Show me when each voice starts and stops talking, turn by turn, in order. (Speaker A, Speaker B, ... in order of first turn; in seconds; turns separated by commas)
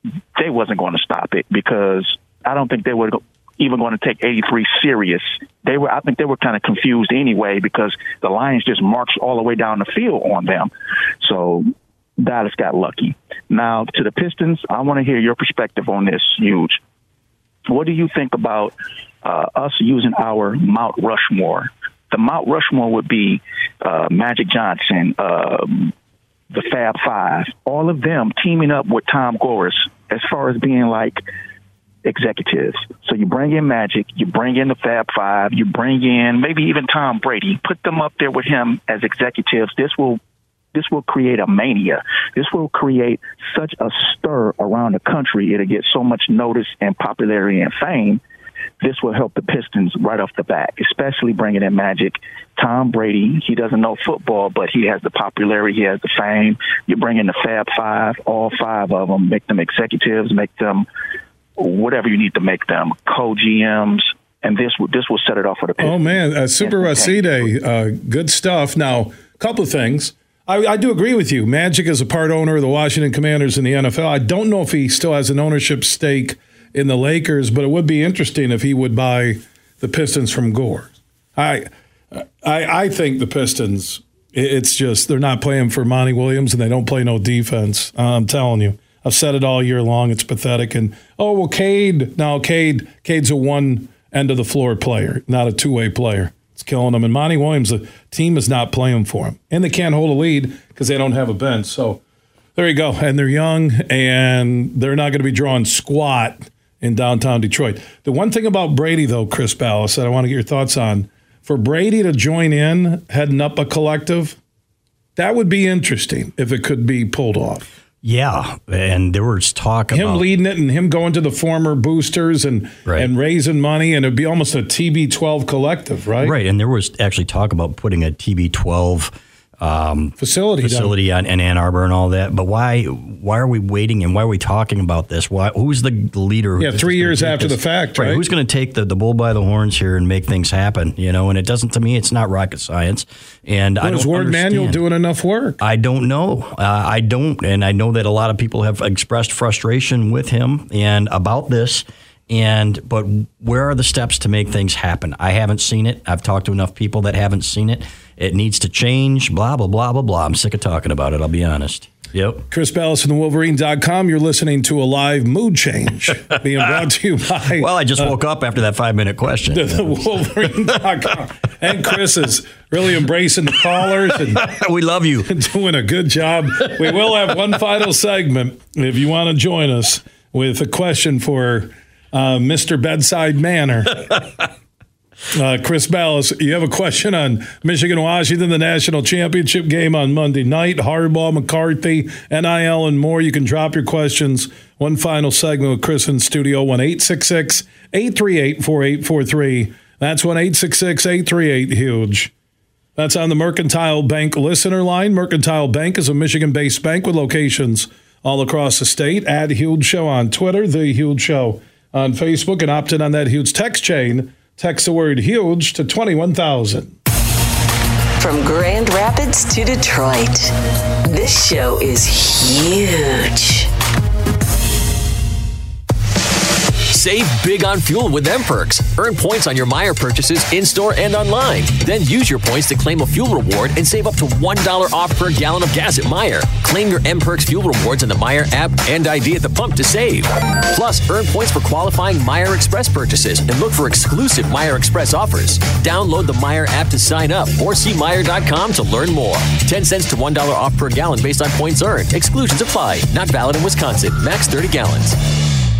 Speaker A: 0.3-16.8, Speaker A: 17.6-25.9, Speaker A: 26.5-31.2, Speaker A: 32.0-40.2, Speaker A: 40.7-48.2, Speaker A: 48.8-60.9, Speaker A: 61.6-67.5, Speaker B: 65.8-102.0, Speaker B: 102.5-114.4, Speaker B: 115.2-117.6, Speaker C: 118.0-120.2, Speaker B: 119.9-126.3, Speaker C: 126.2-144.8, Speaker B: 130.2-130.9, Speaker B: 136.6-138.2, Speaker B: 143.8-145.6, Speaker C: 145.6-162.4, Speaker B: 162.5-168.1, Speaker C: 166.3-166.7, Speaker C: 167.5-170.8, Speaker B: 169.5-174.5, Speaker C: 174.3-175.3, Speaker B: 175.2-184.2, Speaker B: 185.3-202.3, Speaker B: 202.9-216.9, Speaker D: 218.2-220.5, Speaker D: 221.1-223.7, Speaker E: 226.9-255.2